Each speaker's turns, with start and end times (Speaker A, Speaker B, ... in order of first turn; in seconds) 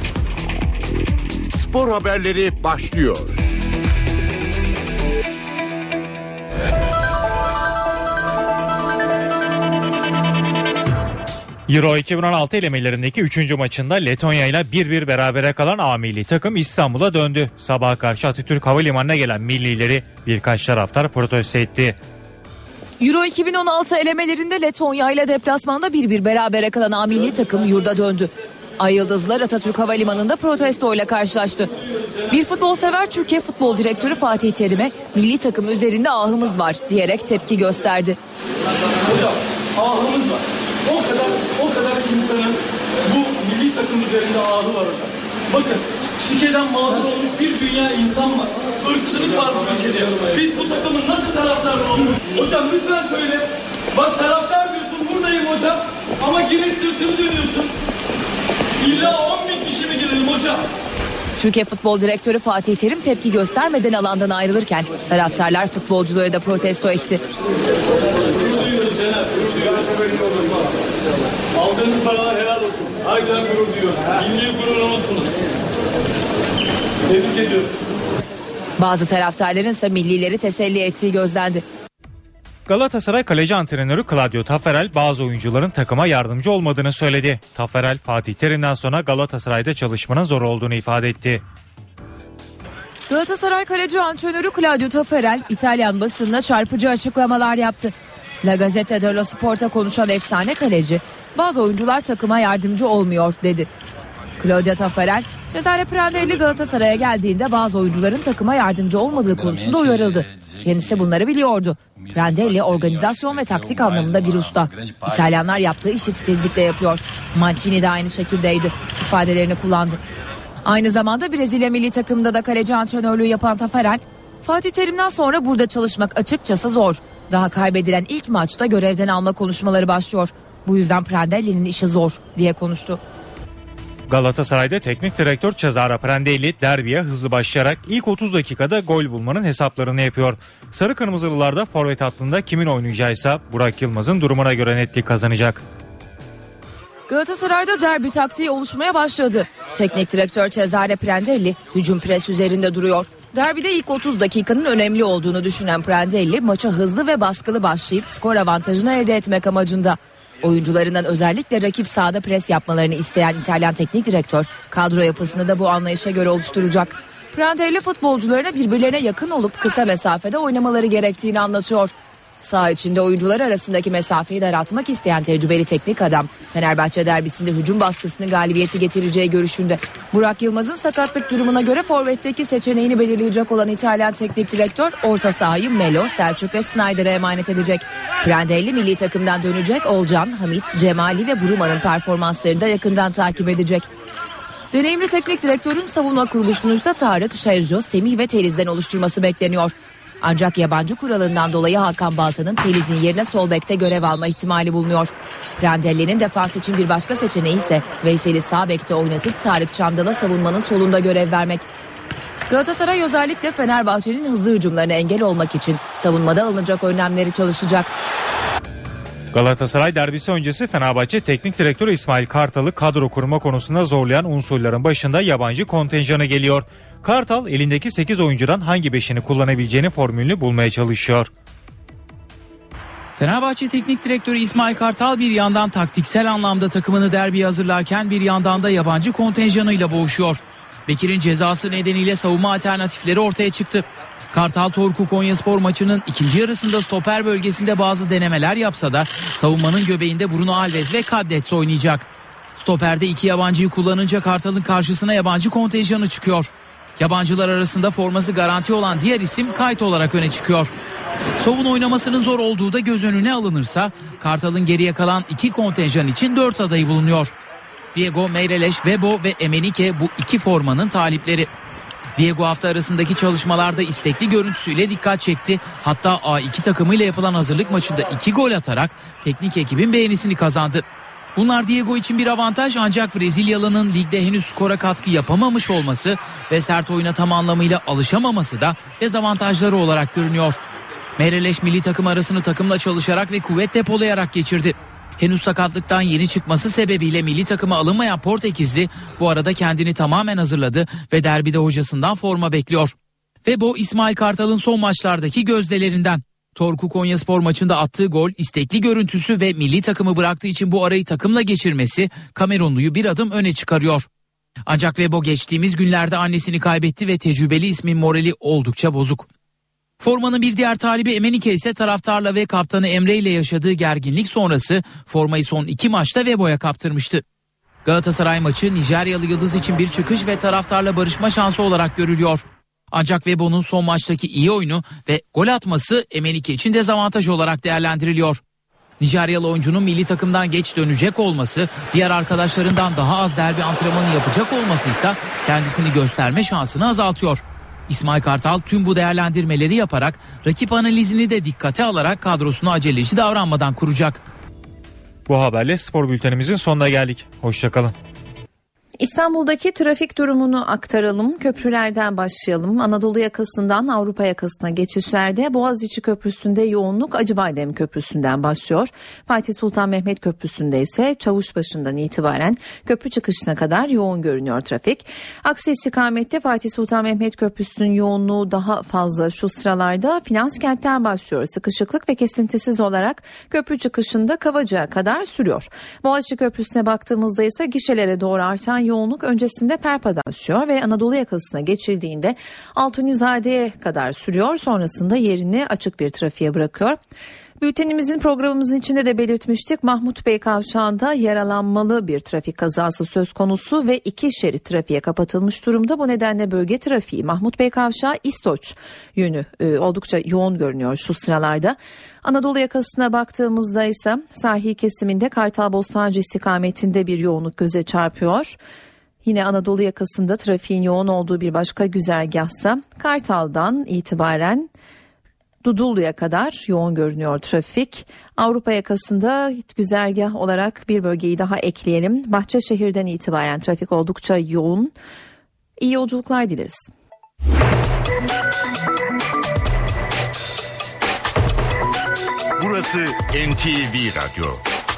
Speaker A: 1.5-3.4, 442.6-444.6
Speaker B: 11.7-22.0, 82.7-91.4, 134.1-145.6, 219.3-231.3, 355.3-357.9
Speaker C: 23.0-31.7, 32.3-38.2, 61.4-67.2, 78.8-81.6, 93.1-103.7, 104.4-120.0, 120.6-133.0, 147.1-193.9, 194.7-211.7, 212.5-217.9
Speaker D: 39.0-57.7, 58.8-60.6, 68.2-70.7, 71.5-75.3, 77.1-77.7
Speaker E: 233.2-260.7, 261.4-267.3, 267.9-271.5, 272.1-280.8, 281.4-290.6, 291.2-302.9, 303.4-314.1, 314.7-319.3, 320.0-327.2, 327.8-338.4, 339.0-354.2
Speaker F: 359.0-397.0, 397.6-418.6, 419.2-424.7, 425.6-434.9, 435.8-436.9